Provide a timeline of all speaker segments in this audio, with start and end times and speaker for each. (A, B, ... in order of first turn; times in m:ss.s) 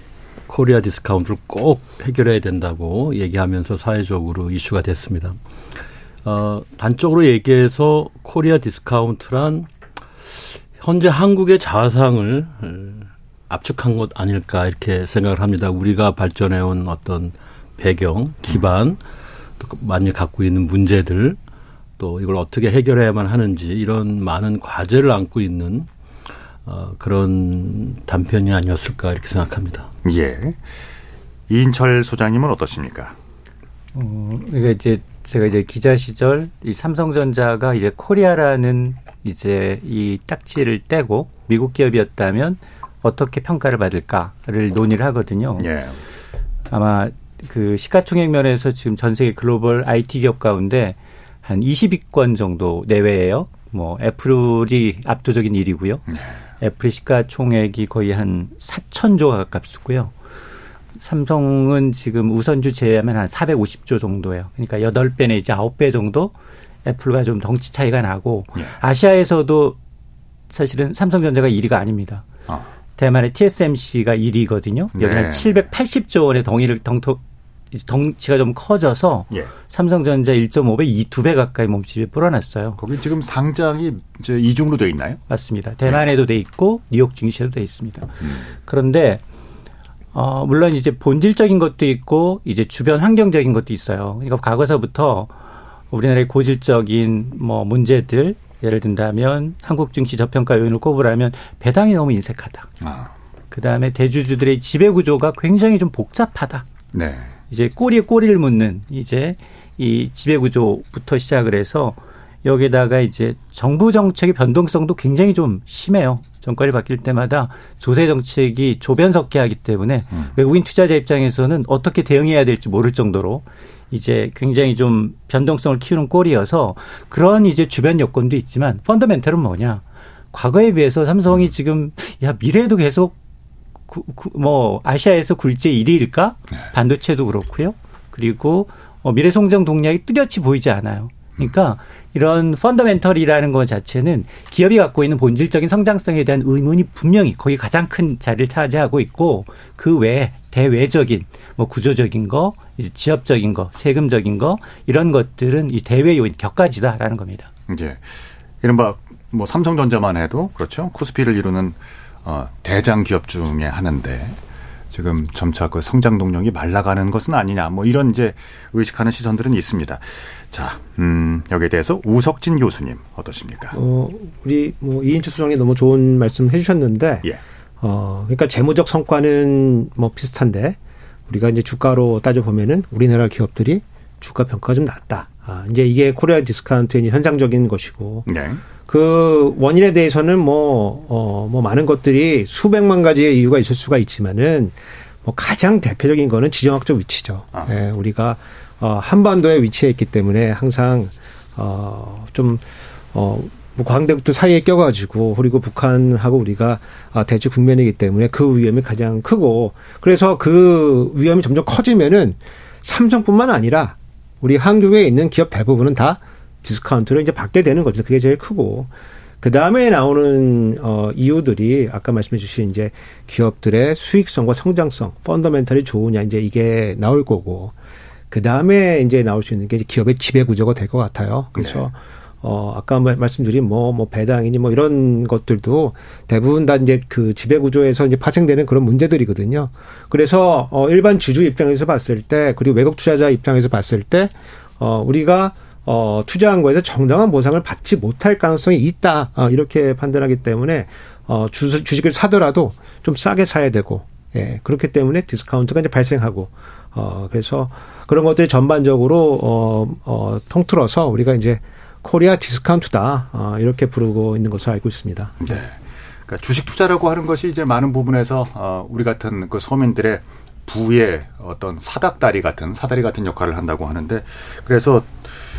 0:00.5-0:05.4 A
0:06.2-0:09.7 A
0:10.2-0:19.0 A
0:19.6-0:21.4 A
0:22.0-0:25.9 A
0:26.7-0:29.9 A
0:30.0-0:30.6 B
0:31.5-0:33.2 B
0:34.0-0:45.7 C
0:45.6-0:46.0 B
0:46.7-0:56.0 C
0:56.6-1:00.1 C
1:01.0-1:06.3 C
1:06.8-1:09.8 C
1:10.5-1:12.2 C
1:13.0-1:17.2 C
1:15.0-1:15.7 B
1:17.7-1:22.8 C
1:22.8-1:25.2 B
1:25.3-1:29.2 C
1:28.2-1:28.5 B
1:30.1-1:35.3 C
1:35.9-1:42.7 C
1:42.8-1:43.1 B
1:43.5-1:46.6 C
1:46.9-1:47.3 B
1:47.5-2:13.2 C
2:13.9-2:37.5 C
2:37.7-2:38.1 B
2:38.6-2:44.4 B
2:44.9-2:53.8 B
2:53.7-2:57.3 D
2:57.8-3:00.8 D
3:01.3-3:08.3 D
3:08.3-3:08.6 B
3:08.9-3:38.9 D
3:39.4-3:47.7 D
3:48.3-4:25.4 D
4:25.4-4:35.3 B